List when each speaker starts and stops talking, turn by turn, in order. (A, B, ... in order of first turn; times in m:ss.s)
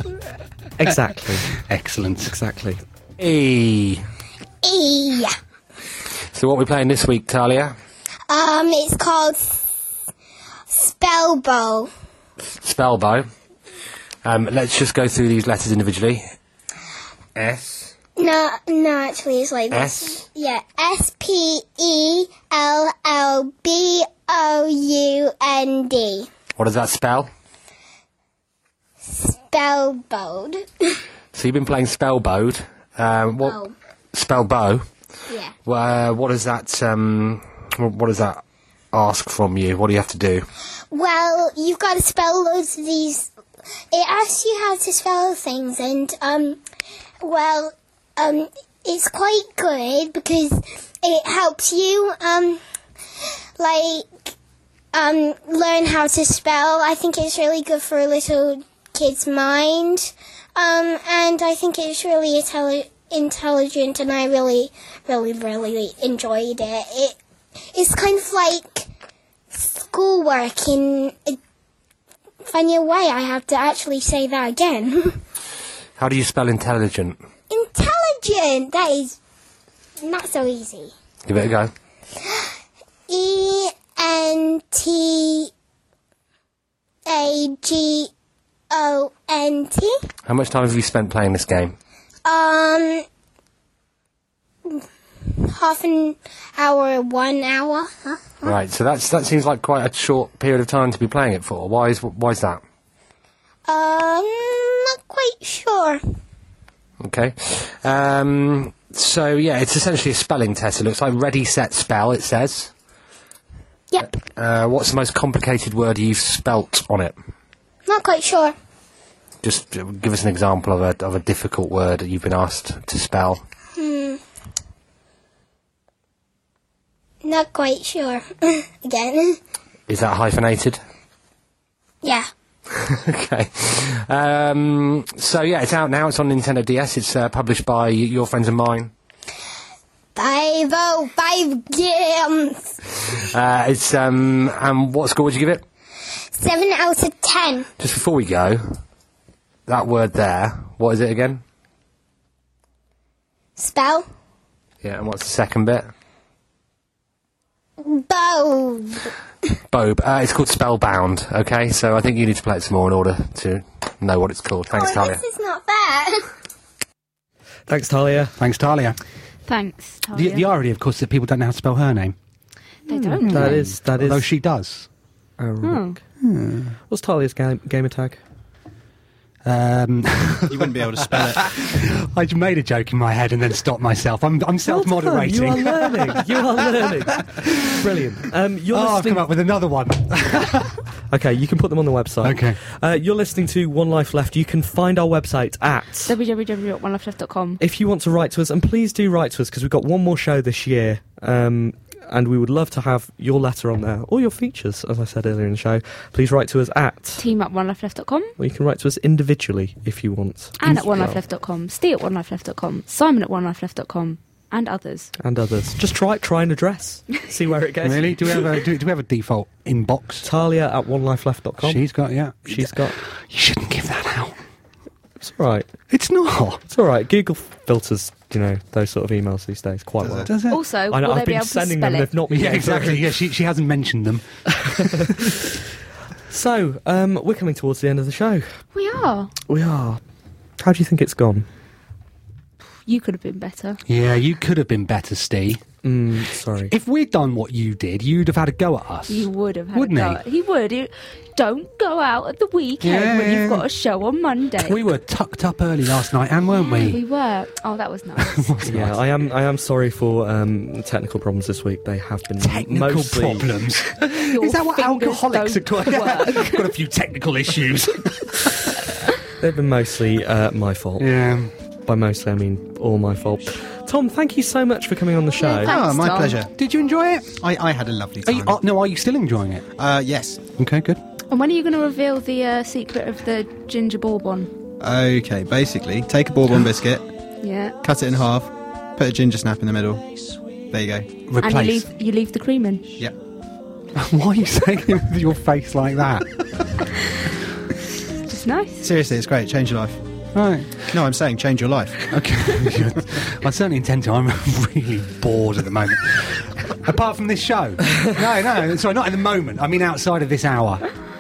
0:00.8-0:01.5 A
0:01.5-0:02.4 B
0:02.3-0:02.8 A
0:03.2-0:04.0 C
0:04.6-0:05.3 D
0:06.3-0:07.7 C
0:08.3-0:09.6 D
0:10.7-0:11.9 D
0:12.6-0:13.3 C
0:14.2-0:16.3 C
0:17.4-0:17.9 C
0:18.2-0:26.3 D
0:19.7-0:20.2 C
0:26.6-0:27.3 C
0:29.1-0:31.0 D
0:31.3-0:33.6 C
0:33.4-0:33.7 D
0:34.1-0:34.9 C
0:35.3-0:35.6 D
0:35.6-0:40.4 C
0:40.9-0:43.3 D
0:43.9-0:46.6 D
0:47.2-0:52.6 D
0:53.6-0:54.3 D
0:54.9-1:07.2 D
1:07.7-1:08.9 D
1:09.5-1:11.4 D
1:12.4-1:15.2 D
1:16.0-1:17.2 C
1:17.5-1:19.2 D
1:20.0-1:20.9 D
1:21.2-1:21.7 C
1:22.2-1:22.5 D
1:23.1-1:25.5 D
1:27.1-1:28.1 D
1:28.7-1:30.0 D
1:30.3-1:31.8 C
1:32.3-1:33.0 D
1:34.7-1:38.6 D
1:38.4-1:42.6 C
1:43.7-1:46.0 D
1:47.0-1:52.7 C
1:53.9-1:54.2 D
1:54.4-1:57.1 C
1:57.9-1:58.6 D
1:59.4-2:03.4 C
2:03.7-2:04.2 D
2:07.2-2:09.4 D
2:09.9-2:10.8 C
2:12.7-2:18.9 C
2:20.1-2:22.7 D
2:23.3-2:25.6 C
2:26.4-2:27.7 D
2:27.8-2:28.6 C
2:29.7-2:31.4 C
2:33.6-2:34.1 D
2:34.8-2:35.9 C
2:37.8-2:39.1 D
2:39.7-2:45.2 C
2:44.7-2:46.3 D
2:47.7-2:48.3 A
2:48.4-2:49.0 B
2:49.5-2:50.5 E
2:50.1-2:52.2 B
2:52.9-2:53.6 E
2:52.9-2:54.3 A
2:53.2-2:54.9 B
2:55.4-2:56.0 A
2:55.6-2:56.0 E
2:56.2-2:56.8 B
2:56.9-2:58.2 A
2:59.4-3:07.7 B
3:00.5-3:01.5 F
3:04.7-3:09.3 A
3:08.7-3:10.8 B
3:11.1-3:16.1 A
3:12.2-3:12.6 B
3:16.1-3:17.6 E
3:17.6-3:27.2 A
3:27.2-3:28.3 E
3:28.4-3:31.2 A
3:30.6-3:35.1 E
3:35.2-3:38.5 A
3:37.8-3:40.3 B
3:40.2-3:41.8 A
3:41.6-3:44.4 B
3:42.4-3:43.0 A
3:45.2-3:45.7 A
3:45.9-3:46.6 B
3:46.7-3:50.3 A
3:50.0-3:50.3 F
3:50.3-3:50.6 B
3:50.5-3:52.1 E
3:50.9-3:53.1 A
3:52.3-3:55.1 B
3:54.6-3:55.6 A
3:56.3-3:58.4 A
3:58.7-3:59.3 E
3:59.5-4:00.0 A
4:00.6-4:01.5 A
4:02.9-4:03.8 E
4:03.9-4:05.6 B
4:05.8-4:06.7 A
4:06.7-4:10.2 B
4:09.1-4:14.8 E
4:12.8-4:13.7 B
4:14.6-4:17.0 B
4:16.6-4:18.6 E
4:18.2-4:19.0 B
4:18.7-4:23.5 A
4:22.4-4:28.6 B
4:24.3-4:26.7 E
4:29.4-4:31.2 A
4:31.0-4:31.5 B
4:31.9-4:35.7 A
4:35.4-4:36.4 E
4:35.6-4:36.5 F
4:36.6-4:37.4 B
4:37.4-4:38.6 F
4:38.2-4:39.7 B
4:39.8-4:40.4 F
4:40.6-4:41.0 B
4:41.3-4:44.5 E
4:44.8-4:47.0 F
4:47.4-4:47.7 E
4:47.8-4:51.1 F
4:51.3-4:51.9 B
4:51.4-4:52.9 E
4:54.0-4:56.8 B
4:58.3-4:58.8 E
4:58.8-5:00.0 F
5:00.3-5:01.0 B
5:00.9-5:02.1 F
5:02.1-5:10.9 B